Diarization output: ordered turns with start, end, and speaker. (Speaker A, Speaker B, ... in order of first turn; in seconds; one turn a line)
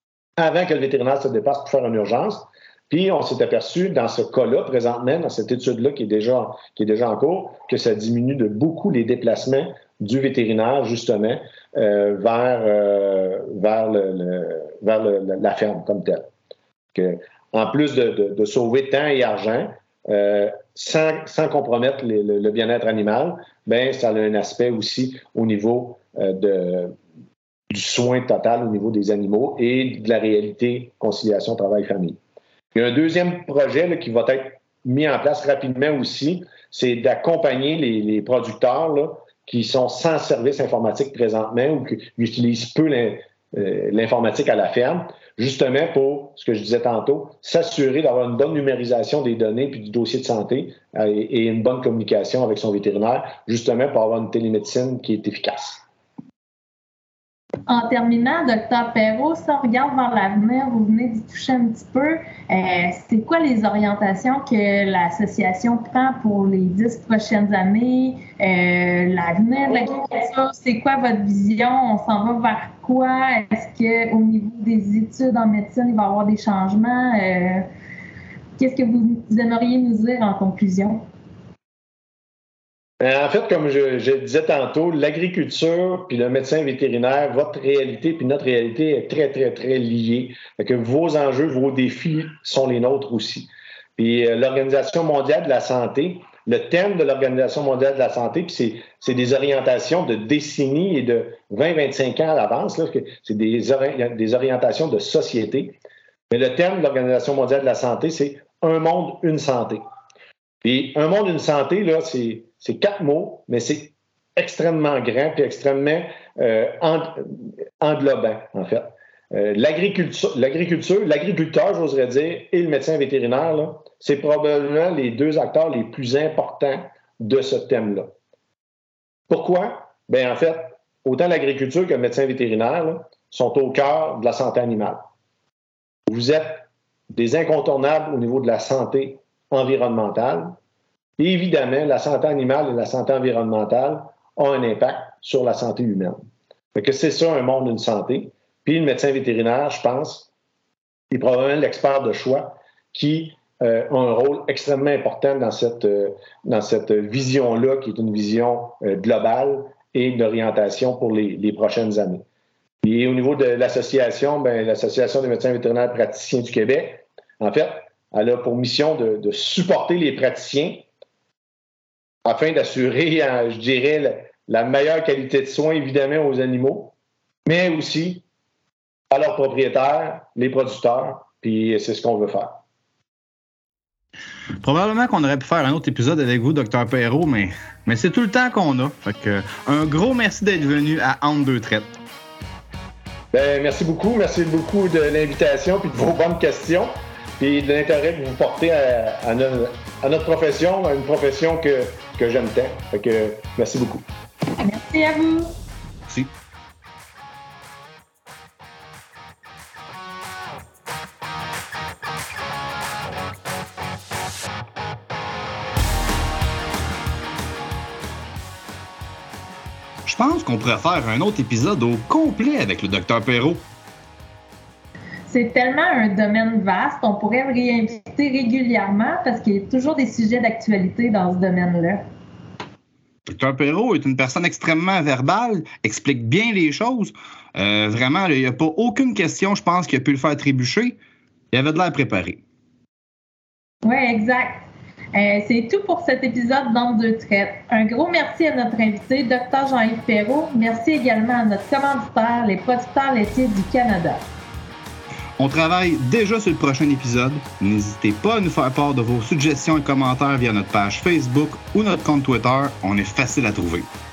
Speaker A: 0.4-16.3
Speaker A: 16.9-27.0
Speaker A: 27.7-32.2
Speaker A: 32.7-55.8
Speaker B: 57.7-77.7
Speaker B: 78.6-81.0
Speaker A: 83.0-105.8
Speaker A: 106.3-109.8
Speaker A: 110.6-128.1
Speaker A: 129.3-135.0
Speaker A: 136.1-140.6
Speaker A: 141.2-146.2
Speaker A: 146.8-150.3
Speaker A: 151.1-162.2
Speaker A: 162.8-170.9
Speaker A: 172.2-176.9
Speaker A: 177.4-178.2
Speaker A: 179.1-182.6
Speaker C: 184.6-191.9
Speaker A: 193.3-204.1
Speaker B: 204.6-205.5
Speaker C: 220.1-223.6
Speaker B: 225.3-232.0
Speaker C: 233.3-241.0
Speaker C: 241.5-242.4
Speaker B: 243.8-254.2
Speaker C: 255.4-263.9